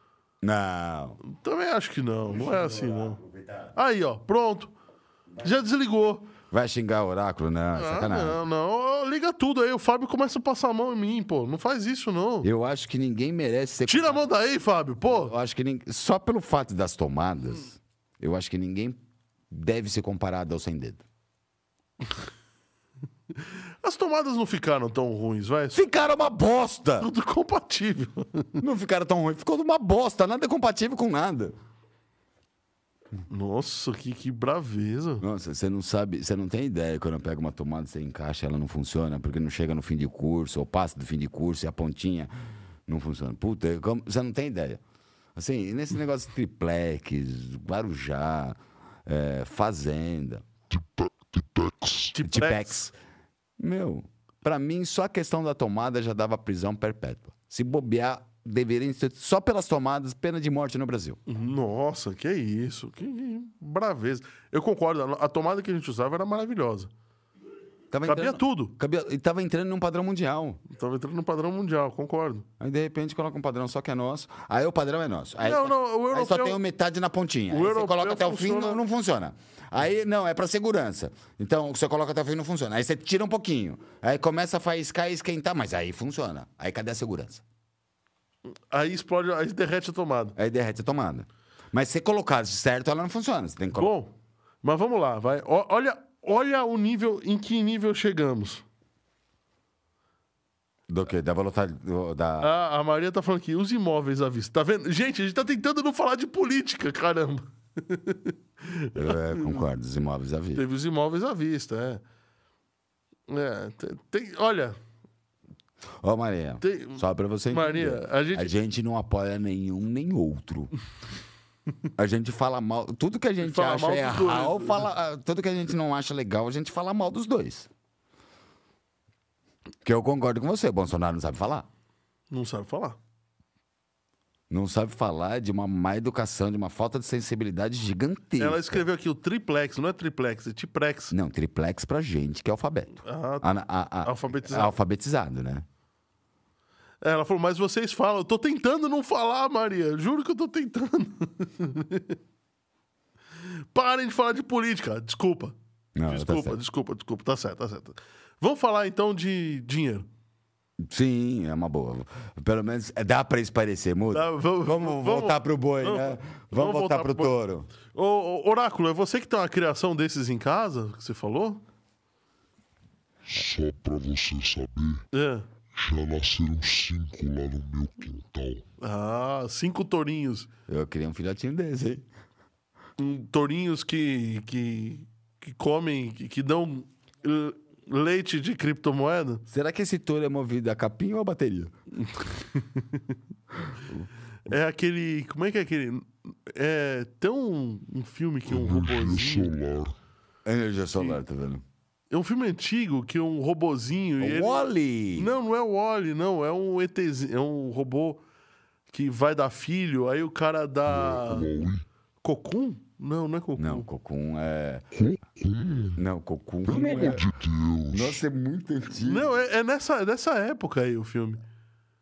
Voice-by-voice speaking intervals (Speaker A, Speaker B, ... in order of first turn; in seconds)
Speaker A: 0.4-1.2, 2.3-3.7, 6.5-8.4, 12.4-14.2, 15.0-21.0, 25.7-27.1, 28.6-31.5, 35.2-42.3, 42.9-44.8, 45.4-50.5, 52.2-52.9, 53.6-61.2, 67.9-70.6, 72.6-87.4, 90.3-93.9, 100.9-102.5, 108.9-110.6, 116.0-120.7, 122.0-127.7, 129.8-131.7, 134.5-138.8, 141.1-145.6, 155.9-156.6, 160.8-167.7, 180.7-182.1, 189.5-191.7, 200.4-201.6, 204.2-205.3, 213.6-214.8, 215.9-217.2, 217.9-219.3
Speaker B: 1.2-3.2, 3.7-4.7, 5.4-6.3, 7.7-12.5, 13.8-15.3, 23.4-25.9, 27.0-28.6, 33.3-35.2, 52.1-52.8, 61.3-66.9, 68.0-68.7, 70.7-72.5, 75.4-76.6, 77.5-78.8, 88.7-90.3, 93.8-98.6, 102.4-109.6, 110.5-112.0, 113.3-114.8, 116.6-118.5, 123.4-124.9, 132.3-133.0, 138.4-141.1, 143.0-143.5, 144.0-144.7, 147.0-152.2, 153.4-155.5, 156.1-160.1, 164.1-167.3, 167.9-171.6, 175.1-175.5, 178.8-180.5, 183.0-189.4, 192.0-193.0, 194.4-199.5, 202.1-208.2, 208.9-211.5, 212.2-213.8, 219.0-221.4
Speaker C: 50.7-52.1, 173.3-175.0, 175.7-178.6, 198.5-199.9, 210.9-211.8, 214.9-216.0, 216.7-218.2